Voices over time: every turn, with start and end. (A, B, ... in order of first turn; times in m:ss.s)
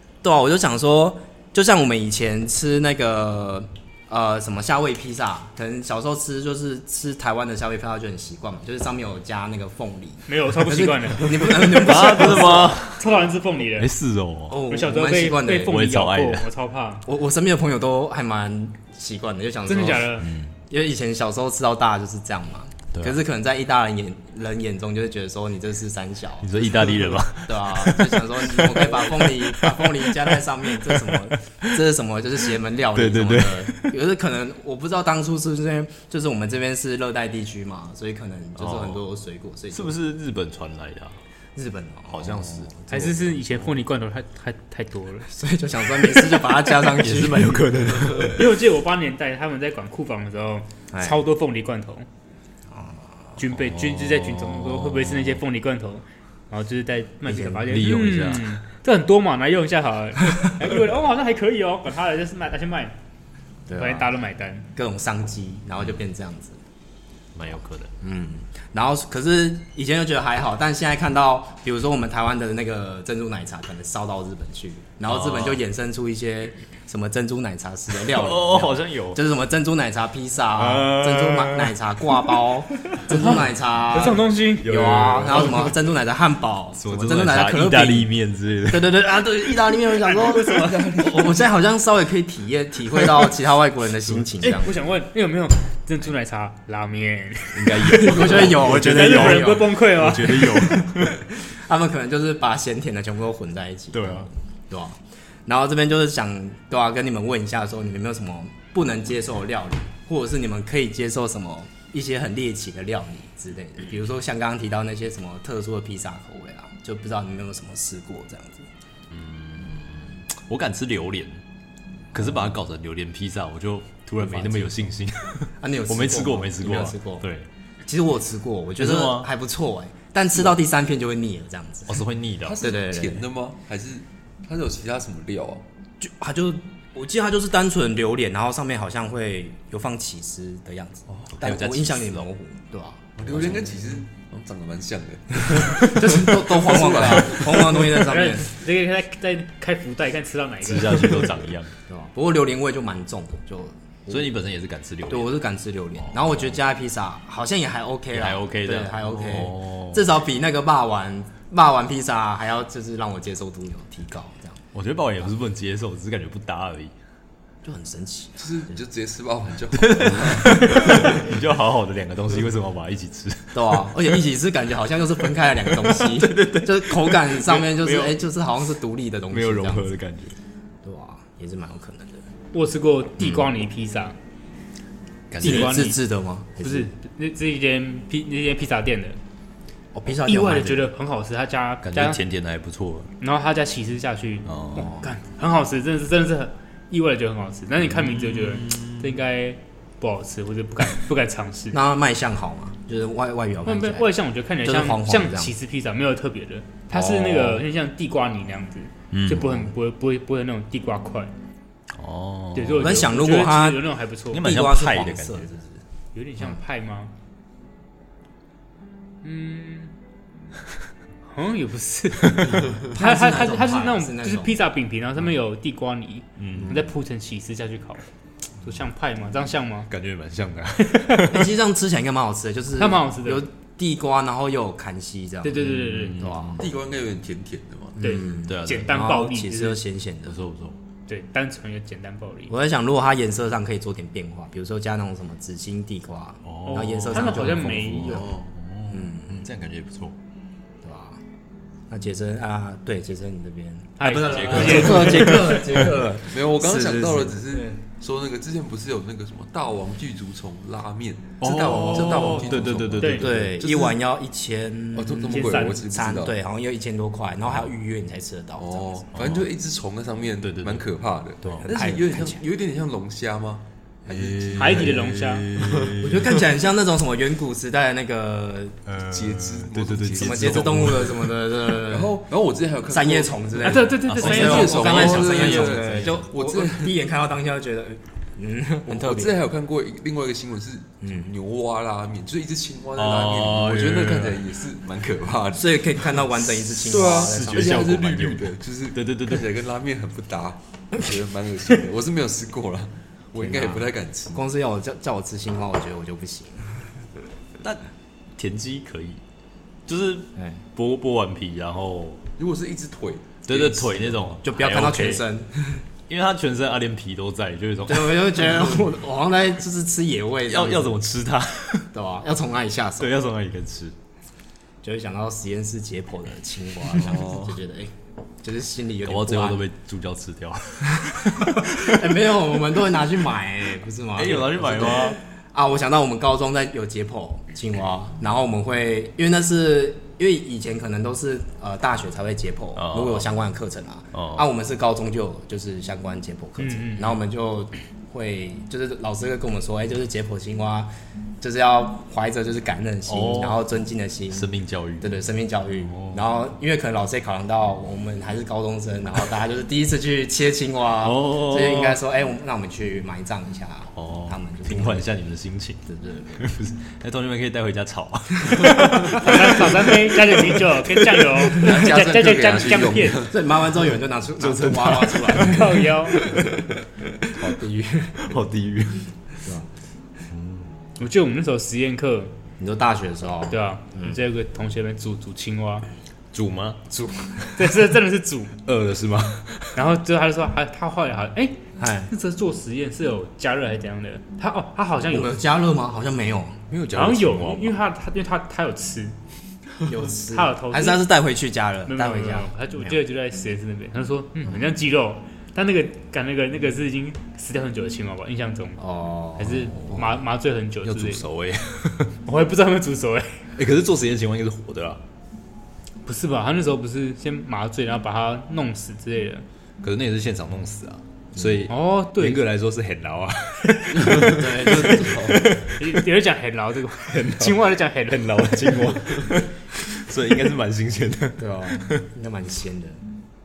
0:00.2-0:12.8 A
0:10.3-0:11.4 B
0:11.3-0:13.1 C
0:12.8-0:13.9 B
0:13.8-0:14.6 C
0:14.5-0:15.8 A
0:14.7-0:17.0 B
0:15.6-0:16.5 C
0:17.0-0:40.0 A
0:19.6-0:20.3 B
0:20.2-0:20.5 C
0:26.4-0:30.1 C
0:30.8-0:31.4 C
0:32.9-0:33.8 C
0:38.6-0:39.0 C
0:39.7-0:41.2 C
0:41.6-0:43.4 A
0:42.1-0:42.7 C
0:42.9-0:45.3 B
0:45.3-0:47.7 A
0:46.1-0:48.5 C
0:48.3-0:52.1 B
0:50.9-0:51.2 A
0:52.7-0:53.2 A
0:53.4-1:03.0 B
0:53.4-0:55.4 C
0:57.2-0:57.7 A
0:57.7-0:58.6 C
1:03.7-1:04.1 A
1:03.7-1:04.7 B
1:04.7-1:06.6 A
1:07.3-1:07.9 C
1:08.0-1:28.1 A
1:15.0-1:15.6 C
1:17.9-1:19.2 C
1:20.6-1:22.3 C
1:23.9-1:25.6 B
1:24.6-1:25.7 C
1:26.8-1:29.0 C
1:28.7-1:34.7 A
1:29.9-1:31.0 B
1:30.6-1:31.4 D
1:34.4-1:38.0 B
1:37.5-1:41.1 C
1:37.9-1:39.8 A
1:38.6-1:40.8 B
1:40.8-1:58.7 A
1:43.9-1:44.3 C
1:59.1-2:01.4 C
2:02.1-2:07.5 C
2:04.2-2:04.9 A
2:05.6-2:07.2 A
2:07.8-2:12.0 A
2:08.8-2:09.3 C
2:11.8-2:12.6 C
2:12.4-2:15.6 D
2:12.6-2:13.3 A
2:16.0-2:24.0 A
2:21.4-2:22.3 C
2:23.2-2:28.0 D
2:25.8-2:28.5 A
2:28.0-2:31.3 B
2:30.6-2:31.7 C
2:31.9-2:34.4 A
2:34.1-2:35.4 C
2:35.1-2:44.6 A
2:36.0-2:36.6 C
2:38.1-2:40.0 C
2:44.7-2:46.9 C
2:47.6-2:48.7 A
2:48.4-2:51.2 D
2:49.7-2:54.0 C
2:53.5-2:59.9 A
2:55.8-2:58.2 C
2:59.3-3:00.4 C
3:00.8-3:02.2 A
3:02.5-3:04.2 B
3:05.3-3:05.8 C
3:05.4-3:06.9 A
3:05.4-3:06.0 B
3:06.6-3:09.2 B
3:09.9-3:10.9 A
3:10.2-3:12.2 B
3:11.8-3:13.1 C
3:13.2-3:21.8 B
3:14.4-3:14.9 C
3:14.8-3:15.1 A
3:17.8-3:19.1 C
3:21.7-3:25.5 A
3:23.6-3:31.3 B
3:26.9-3:27.6 A
3:29.1-3:29.7 C
3:32.0-3:33.1 C
3:32.5-3:34.5 B
3:32.8-3:33.8 A
3:34.3-3:35.5 C
3:34.4-3:35.8 A
3:36.1-3:37.1 B
3:39.2-3:39.9 B
3:41.2-3:48.0 B
3:42.8-3:44.6 A
3:46.4-3:46.8 C
3:46.6-3:46.8 A
3:48.6-3:49.9 B
3:49.9-3:51.5 C
3:50.8-3:51.3 B
3:51.3-3:55.6 A
3:52.8-3:53.5 B
3:55.4-3:56.2 B
3:55.6-3:56.7 C
3:56.2-3:56.6 A
3:56.6-3:58.0 D
3:58.0-3:59.8 B
3:58.0-4:00.4 A
3:58.4-3:58.9 C
4:00.2-4:00.8 C
4:01.1-4:02.5 B
4:02.5-4:08.4 A
4:06.4-4:10.2 C
4:06.6-4:08.2 B
4:08.9-4:09.4 A
4:10.8-4:11.2 A
4:11.9-4:17.8 A
4:14.0-4:15.7 B
4:14.0-4:15.9 C
4:14.6-4:15.5 D
4:16.2-4:24.0 D
4:21.4-4:23.6 C
4:21.8-4:22.6 A
4:23.0-4:23.2 B
4:23.2-4:29.1 A
4:24.9-4:26.3 D
4:25.3-4:25.8 B
4:28.6-4:34.9 D
4:29.1-4:29.4 C
4:30.4-4:30.8 C
4:31.4-4:31.7 C
4:31.6-4:32.4 A
4:34.1-4:36.5 C
4:34.1-4:34.8 A
4:34.6-4:35.5 B
4:35.6-4:35.9 D
4:36.0-4:38.8 A
4:38.9-4:41.1 C
4:39.0-4:41.4 D
4:40.1-4:42.2 A
4:41.9-4:43.4 D
4:42.9-4:49.3 A
4:43.6-4:44.7 B
4:44.0-4:46.2 C
4:44.0-4:47.0 D
4:48.9-4:56.2 D
4:51.0-4:51.3 A
4:53.0-4:54.4 C
4:55.5-4:58.0 A
4:56.8-5:04.4 D
4:56.8-4:59.5 C
5:03.4-5:07.0 A
5:08.4-5:09.2 C
5:09.9-5:12.2 C
5:12.4-5:13.4 D
5:13.5-5:15.2 C
5:13.5-5:15.8 A
5:16.1-5:18.9 C
5:17.8-5:21.0 A
5:20.5-5:21.9 C
5:21.9-5:23.1 A
5:23.0-5:23.9 C
5:24.8-5:27.9 A
5:27.0-5:27.5 C
5:28.4-5:29.6 A
5:29.0-5:32.4 C
5:31.3-5:50.9 A
5:34.1-5:35.2 C
5:42.8-5:43.3 C
5:44.1-5:44.5 C
5:46.6-5:47.2 B
5:51.4-6:05.1 A
5:53.1-5:53.6 C
5:54.3-5:55.2 C
5:55.8-5:56.2 C
6:01.0-6:02.0 C
6:03.9-6:05.8 C
6:05.8-6:06.5 A
6:06.3-6:11.0 C
6:08.4-6:09.2 A
6:09.1-6:13.3 B
6:11.4-6:13.5 D
6:13.2-6:16.6 A
6:14.4-6:15.5 C
6:15.4-6:16.2 B
6:17.2-6:18.2 A
6:18.2-6:19.1 C
6:19.4-6:19.7 A
6:20.3-6:20.7 C
6:21.0-6:22.3 B
6:22.6-6:24.2 A
6:23.5-6:25.9 B
6:26.3-6:26.8 C
6:26.9-6:27.6 A
6:27.6-6:28.5 B
6:28.6-6:29.7 C
6:29.7-6:31.6 B
6:31.8-6:32.1 A
6:32.1-6:35.3 B
6:35.0-6:36.6 A
6:36.7-6:37.8 C
6:36.9-6:39.2 B
6:39.8-6:43.0 A
6:40.2-6:41.0 B
6:41.9-6:48.8 B
6:48.8-6:49.5 A
6:49.4-6:51.3 B
6:49.4-6:50.2 C
6:50.8-6:52.1 C
6:52.2-6:53.4 B
6:53.6-6:55.0 C
6:56.0-6:59.4 B
6:59.8-7:06.0 C
7:01.3-7:01.6 A
7:01.7-7:02.4 B
7:04.0-7:05.0 D
7:04.2-7:05.6 A
7:05.8-7:09.0 B
7:07.0-7:12.0 C
7:11.4-7:13.0 A